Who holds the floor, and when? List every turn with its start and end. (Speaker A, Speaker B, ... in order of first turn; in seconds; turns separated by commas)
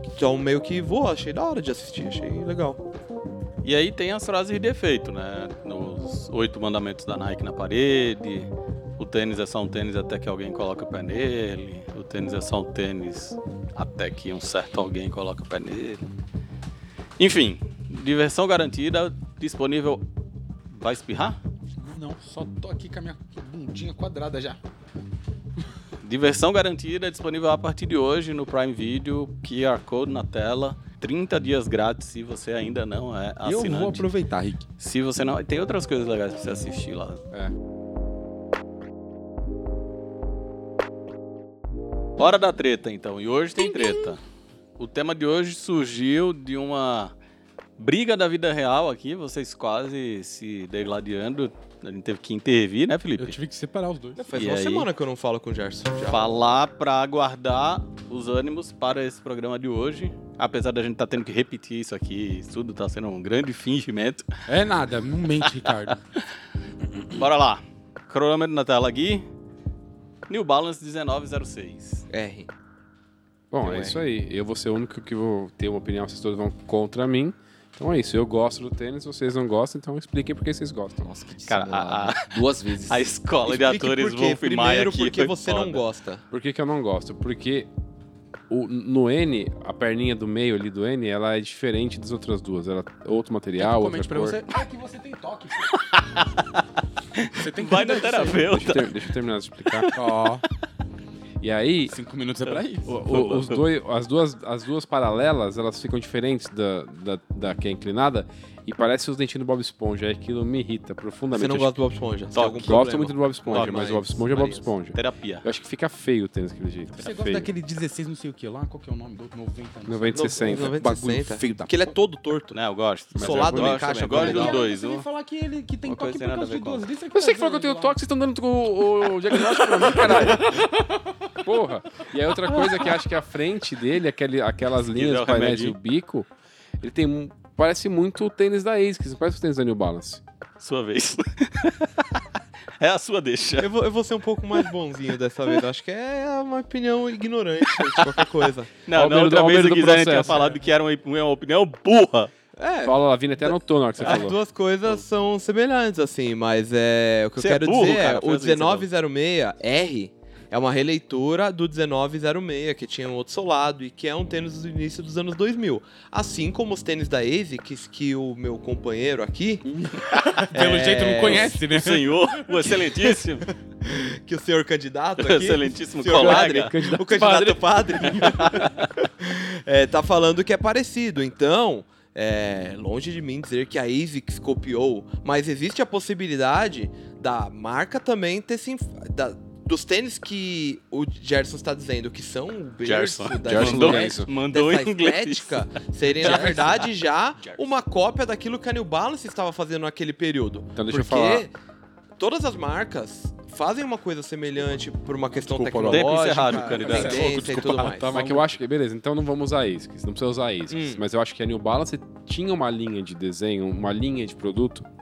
Speaker A: 0.1-2.8, Speaker B: 3.6-16.0, Speaker B: 17.2-20.1, Speaker B: 20.7-21.4, Speaker C: 21.8-24.6, Speaker B: 26.0-34.1, Speaker C: 33.4-34.6, Speaker B: 34.8-37.2, Speaker B: 42.2-44.2, Speaker B: 44.8-47.1, Speaker B: 47.8-53.4, Speaker C: 53.2-54.2, Speaker A: 54.2-56.3, Speaker B: 54.3-54.9, Speaker B: 56.1-64.3, Speaker C: 64.5-66.0, Speaker B: 65.7-66.2, Speaker B: 67.0-69.3, Speaker B: 70.3-72.1, Speaker A: 72.1-72.5, Speaker D: 73.5-81.0, Speaker A: 73.6-74.0, Speaker E: 81.0-83.1, Speaker B: 81.5-85.8, Speaker A: 83.5-86.2, Speaker D: 86.3-87.7, Speaker D: 88.5-94.4, Speaker C: 93.6-95.7, Speaker B: 95.8-99.0, Speaker C: 97.3-98.5, Speaker D: 98.4-99.9, Speaker B: 99.7-100.1, Speaker C: 99.9-100.4, Speaker D: 101.4-102.0, Speaker C: 101.9-103.0, Speaker B: 102.5-103.6, Speaker D: 102.9-111.8, Speaker A: 111.3-114.7, Speaker B: 112.3-114.0, Speaker D: 112.6-117.5, Speaker B: 114.9-115.5, Speaker C: 117.0-121.7, Speaker D: 119.9-121.7, Speaker A: 120.1-122.6, Speaker B: 122.5-125.0, Speaker D: 123.2-124.3, Speaker A: 123.2-124.6, Speaker C: 124.1-128.0, Speaker B: 125.8-126.8, Speaker D: 127.1-130.7, Speaker C: 129.5-130.8, Speaker D: 131.4-136.3, Speaker B: 134.9-135.8, Speaker D: 136.8-140.2, Speaker B: 140.6-142.2, Speaker B: 142.8-143.7, Speaker A: 143.6-148.7, Speaker B: 148.8-152.3, Speaker D: 148.9-150.5, Speaker A: 150.3-150.6, Speaker A: 152.6-169.7, Speaker D: 152.8-154.4, Speaker B: 157.4-158.9, Speaker C: 169.8-172.2, Speaker B: 170.1-170.4, Speaker A: 170.5-171.6, Speaker B: 171.2-173.5, Speaker A: 172.7-173.3, Speaker A: 173.8-201.5, Speaker B: 175.2-177.0, Speaker C: 176.2-177.5, Speaker B: 178.0-178.9, Speaker B: 192.8-195.7, Speaker D: 193.4-194.3, Speaker B: 196.2-196.9, Speaker C: 196.2-196.7, Speaker D: 200.8-201.5, Speaker A: 202.2-208.3, Speaker D: 205.3-206.2, Speaker B: 205.9-208.0, Speaker C: 206.4-208.5, Speaker D: 207.5-214.9, Speaker A: 210.7-211.0